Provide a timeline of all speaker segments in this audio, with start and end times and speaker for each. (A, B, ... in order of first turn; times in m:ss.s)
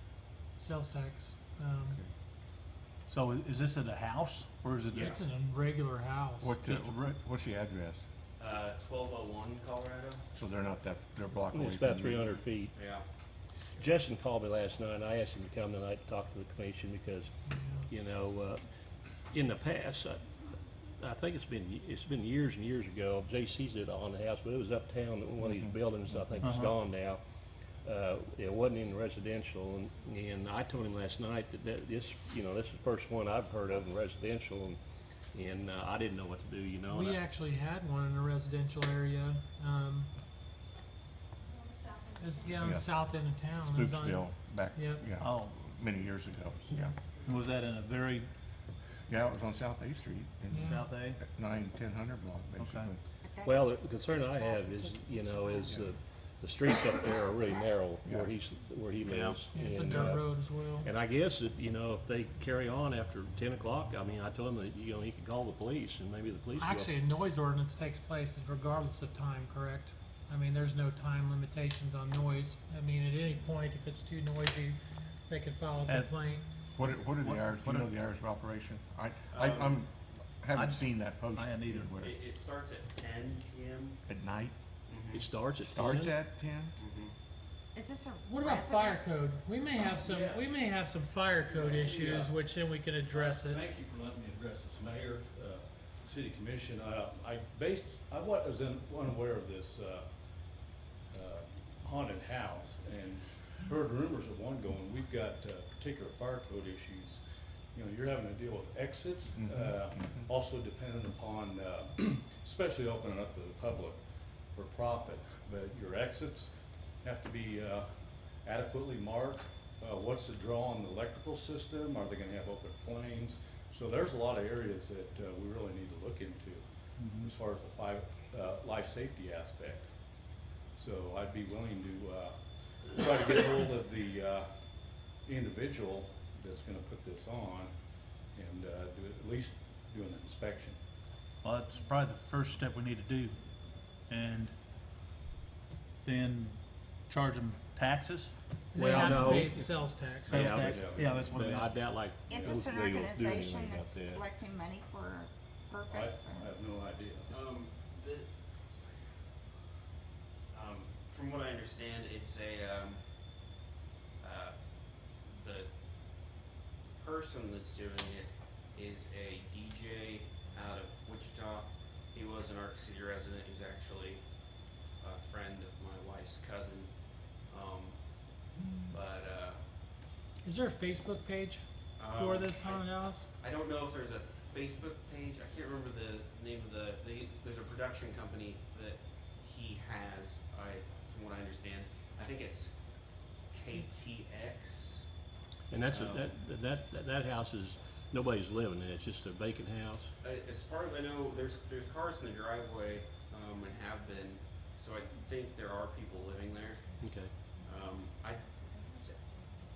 0:00.6-0:02.0 A
0:03.1-0:05.2 B
0:04.9-0:05.2 C
0:04.9-0:06.6 A
0:06.4-0:08.0 D
0:06.6-0:07.1 B
0:08.4-0:10.2 C
0:10.3-0:12.4 D
0:11.5-0:12.7 E
0:12.7-0:13.0 C
0:13.8-0:17.3 E
0:17.5-0:17.9 A
0:17.9-0:18.6 E
0:19.3-0:27.2 E
0:26.4-0:26.7 B
0:27.8-0:34.8 E
0:35.3-0:37.2 E
0:36.9-0:40.1 A
0:42.2-0:45.0 A
0:42.6-0:42.9 D
0:43.6-0:47.0 D
0:45.2-0:45.6 B
0:47.2-0:48.3 B
0:49.1-0:53.0 D
0:50.5-0:50.8 A
0:50.6-0:51.2 B
0:52.6-0:52.9 B
0:53.2-0:53.6 F
0:53.4-1:06.9 E
0:54.2-0:55.6 F
0:55.6-0:55.9 D
0:58.0-0:58.3 D
0:59.5-1:00.9 A
1:06.6-1:16.4 A
1:16.8-1:22.1 D
1:16.8-1:17.9 B
1:19.3-1:19.8 C
1:20.5-1:20.8 B
1:21.3-1:21.9 B
1:22.0-1:24.0 C
1:24.0-1:24.5 D
1:24.9-1:25.2 C
1:25.1-1:26.1 E
1:25.6-1:26.8 D
1:26.8-1:27.1 C
1:27.7-1:29.1 F
1:28.2-1:33.6 A
1:29.9-1:30.6 G
1:31.4-1:32.4 G
1:33.1-1:40.1 G
1:41.1-1:47.2 G
1:47.7-1:57.9 G
1:49.4-1:50.3 D
1:58.4-2:09.9 G
2:07.0-2:07.3 B
2:10.7-2:14.5 G
2:15.2-2:17.7 G
2:18.3-2:20.8 G
2:21.4-2:23.5 B
2:24.1-2:24.6 B
2:26.0-2:28.3 B
2:28.7-2:30.4 A
2:28.7-2:34.2 E
2:29.0-2:29.3 B
2:30.3-2:31.3 G
2:30.3-2:31.8 B
2:32.3-2:36.5 F
2:32.3-2:32.6 G
2:35.8-2:37.3 G
2:37.3-2:39.1 C
2:40.5-2:43.0 C
2:44.2-2:45.7 C
2:47.0-2:54.2 C
2:55.0-2:59.6 C
3:00.4-3:03.3 A
3:02.0-3:02.8 C
3:03.4-3:12.8 C
3:13.5-3:15.0 C
3:15.7-3:20.1 E
3:15.9-3:16.3 C
3:20.2-3:26.9 C
3:27.0-3:27.4 E
3:27.6-3:29.2 C